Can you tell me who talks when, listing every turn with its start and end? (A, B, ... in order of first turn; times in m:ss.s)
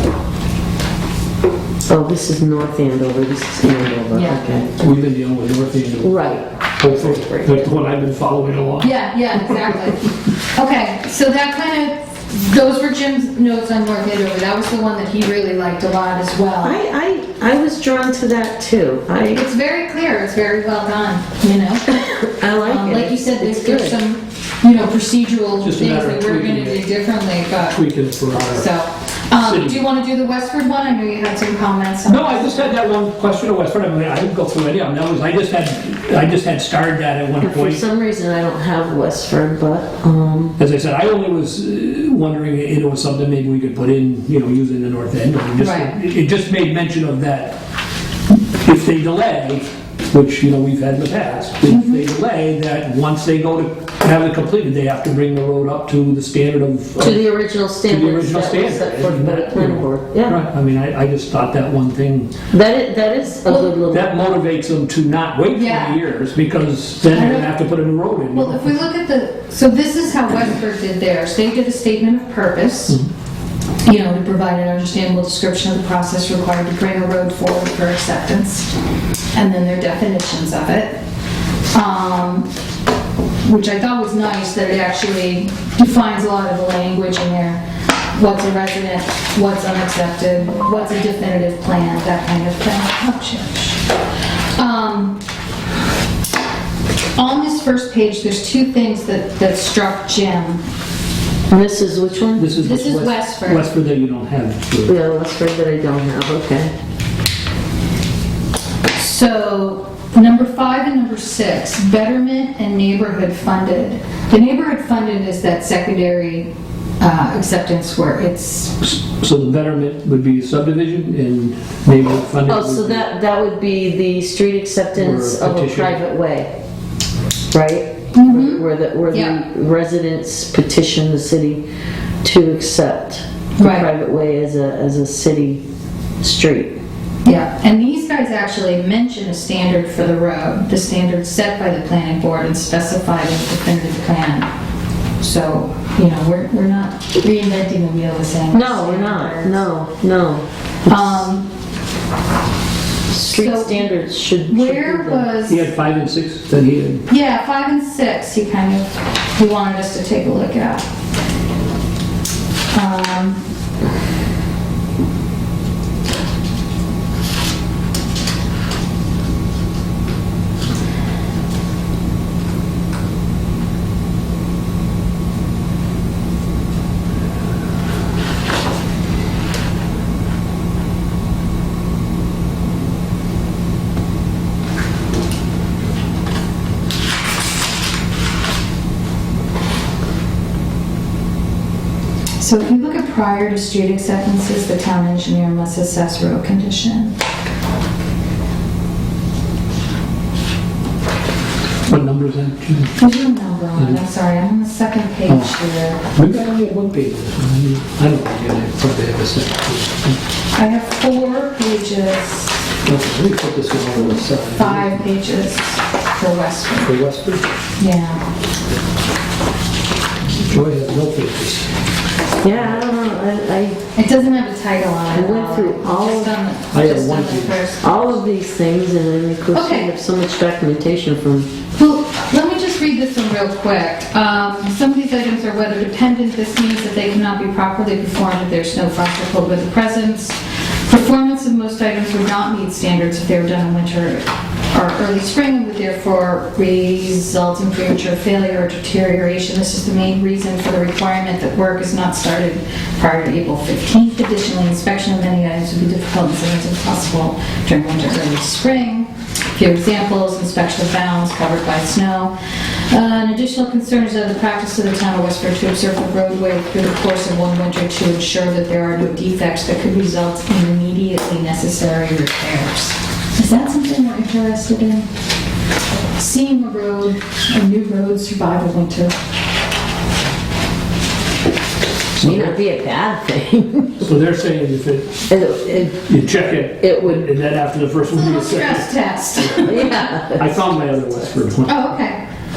0:01.9-0:04.7 A
0:04.1-0:04.4 B
0:04.8-0:08.9 C
0:06.0-0:07.7 A
0:08.8-0:16.8 B
0:16.6-0:19.4 A
0:19.3-0:27.8 B
0:22.2-0:24.0 A
0:25.6-0:26.9 C
0:27.6-0:28.7 C
0:28.4-0:32.7 B
0:29.3-0:29.8 C
0:32.1-0:37.8 C
0:37.4-0:40.6 A
0:40.6-0:47.6 C
0:45.6-0:46.0 B
0:48.6-0:57.3 C
0:51.7-0:52.0 B
0:57.0-1:00.4 A
0:57.8-1:02.3 C
1:02.5-1:04.2 A
1:03.9-1:08.8 C
1:05.5-1:06.0 B
1:07.1-1:07.5 B
1:08.3-1:13.0 B
1:13.8-1:18.7 B
1:19.3-1:21.0 B
1:21.7-1:22.5 B
1:23.4-1:27.6 B
1:28.1-1:33.8 B
1:34.5-1:35.2 B
1:37.2-1:40.6 B
1:41.5-1:42.5 A
1:42.4-1:44.9 C
1:42.6-1:43.7 B
1:44.8-1:46.7 A
1:49.0-1:58.7 B
1:58.8-2:03.1 C
2:02.5-2:06.5 A
2:04.9-2:06.0 C
2:07.5-2:11.6 A
2:08.1-2:09.4 B
2:12.2-2:15.6 A
2:13.6-2:13.9 B
2:16.2-2:16.8 A
2:17.2-2:24.5 B
2:25.2-2:29.6 B
2:28.5-2:31.1 A
2:30.8-2:31.5 B
2:33.1-2:35.3 A
2:33.3-2:33.9 B
2:34.5-2:35.7 B
2:35.5-2:37.1 C
2:37.1-2:40.8 B
2:42.7-2:43.4 B
3:12.4-3:17.2 B
3:21.9-3:22.9 C
3:23.0-3:26.0 B
3:25.3-3:25.5 C
3:26.1-3:30.2 C
3:30.5-3:32.7 B
3:32.8-3:35.0 C
3:34.5-3:37.0 B
3:36.8-3:37.4 C
3:37.8-3:38.2 B
3:40.5-3:41.7 C
3:42.4-3:43.8 A
3:42.5-3:42.8 C
3:43.9-3:48.2 B
3:45.1-3:46.3 A
3:46.7-3:47.7 C
3:47.8-3:51.5 A
3:49.5-3:49.9 B
3:51.7-4:35.1 B
4:36.2-4:39.1 B
4:42.2-4:44.1 A
4:42.2-4:42.6 C
4:44.0-4:45.3 C
4:45.3-4:46.0 A
4:45.9-4:48.9 C
4:46.8-4:47.3 A
4:48.1-4:50.0 B
4:49.6-4:50.4 A
4:50.4-4:51.8 C
4:51.7-4:52.2 B